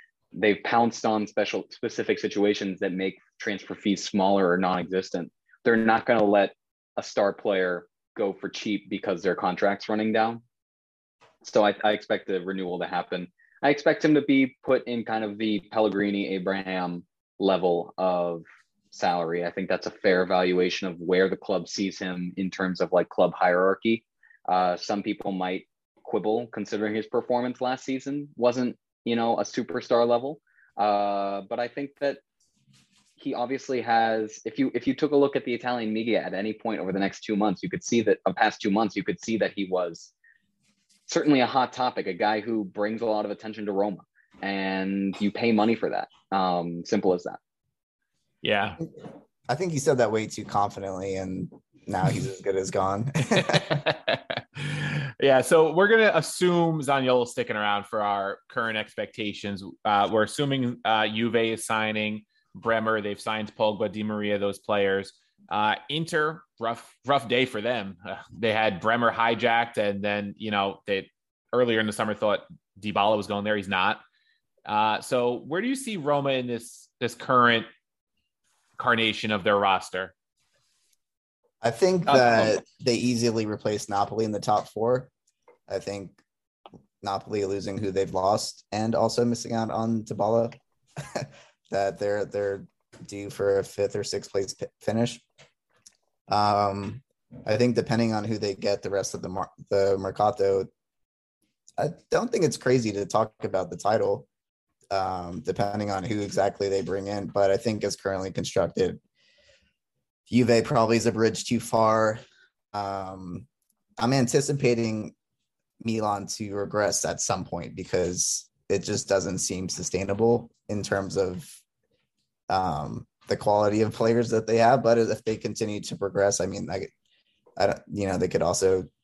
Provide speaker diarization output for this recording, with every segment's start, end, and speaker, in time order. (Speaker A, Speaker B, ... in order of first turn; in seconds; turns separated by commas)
Speaker A: 0.3-10.4, Speaker A: 11.4-32.2, Speaker A: 33.2-40.1, Speaker A: 41.1-47.4, Speaker B: 48.4-48.8, Speaker C: 49.5-53.9, Speaker B: 53.4-74.0, Speaker B: 74.7-77.7, Speaker B: 78.8-80.1, Speaker C: 81.6-85.1, Speaker A: 82.1-82.5, Speaker C: 85.7-86.2, Speaker C: 87.0-95.2, Speaker C: 96.3-100.7, Speaker C: 101.8-104.3, Speaker C: 104.9-109.0, Speaker C: 110.3-112.2, Speaker C: 112.7-113.5, Speaker C: 114.0-115.2, Speaker C: 115.8-121.6, Speaker C: 122.5-126.9, Speaker C: 127.6-128.9